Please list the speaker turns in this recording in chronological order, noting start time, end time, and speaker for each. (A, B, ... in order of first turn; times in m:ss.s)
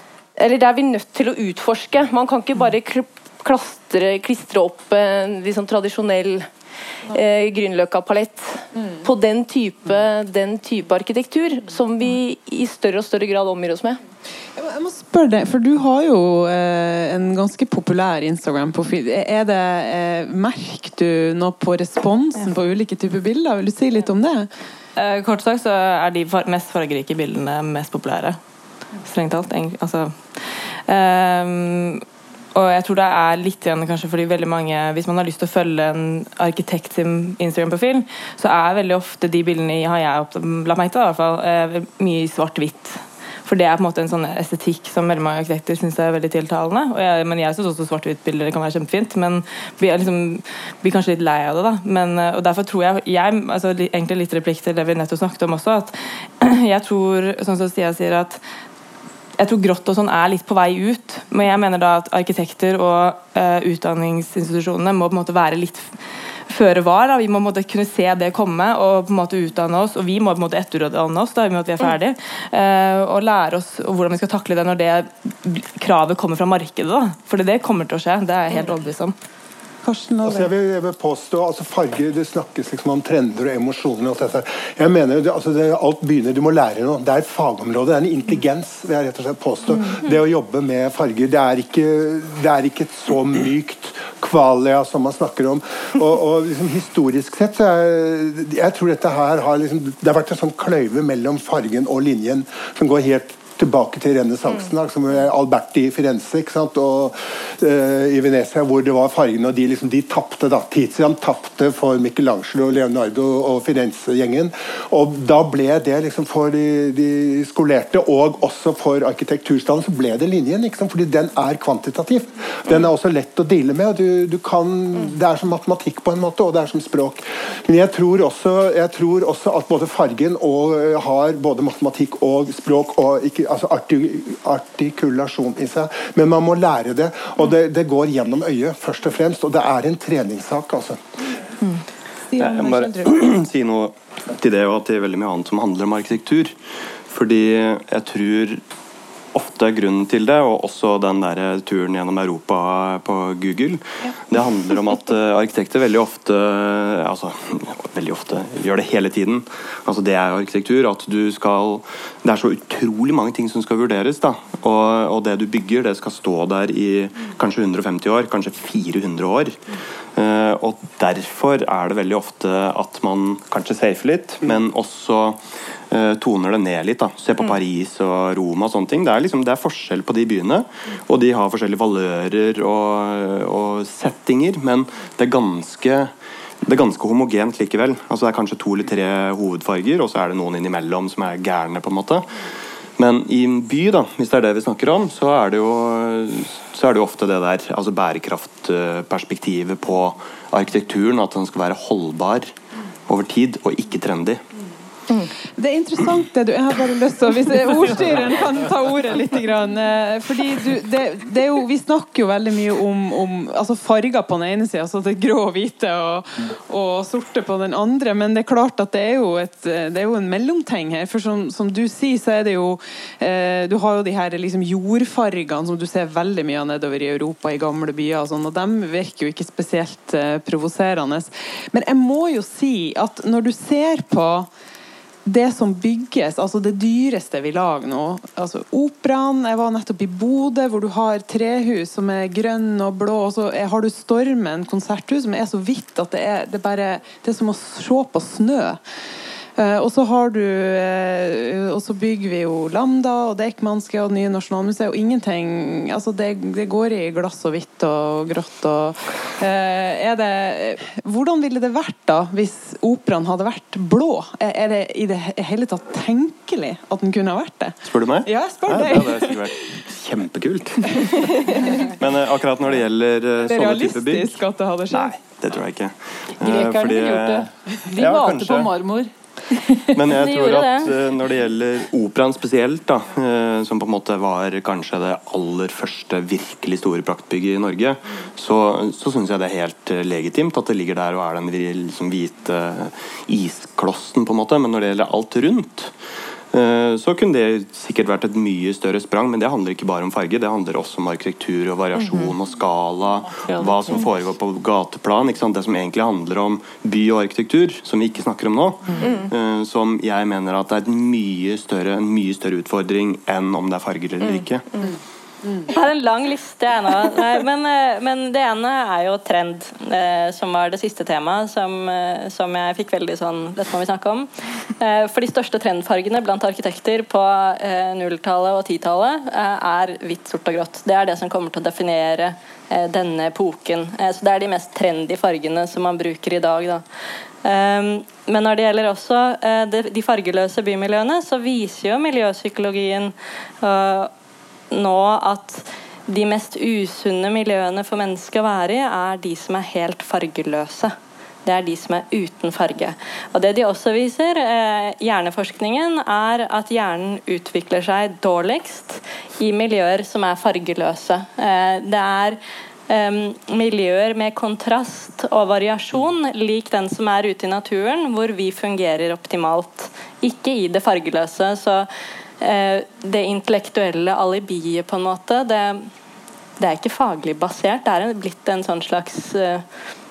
0:00.4-0:06.5 A
0:07.1-0:14.0 A
0:14.5-0:24.5 B
0:25.0-0:28.4 C
0:29.0-0:58.4 C
0:59.4-1:06.0 C
1:06.5-1:19.2 C
1:19.8-1:20.5 B
1:20.2-2:21.0 D
2:22.3-2:23.2 B
2:22.4-2:26.5 E
2:27.1-2:28.6 E
2:29.3-2:49.6 E
2:50.2-3:06.1 E
3:06.6-3:12.4 E
3:13.0-3:22.5 E
3:23.1-3:24.4 E
3:25.6-3:54.5 B
3:55.2-4:08.8 B
4:09.6-4:29.6 B
4:27.9-4:34.4 E
4:30.9-4:31.9 B
4:33.4-4:35.2 B
4:34.9-4:38.7 E
4:36.4-4:39.1 F
4:39.7-4:40.0 F
4:39.9-4:55.9 E
4:40.1-4:41.0 G
4:56.5-5:14.7 E
5:03.2-5:04.2 F
5:15.6-5:36.8 G
5:37.4-5:44.1 G
5:44.7-5:50.9 G
5:51.4-6:11.9 G
6:12.4-6:15.9 G
6:16.6-6:19.6 G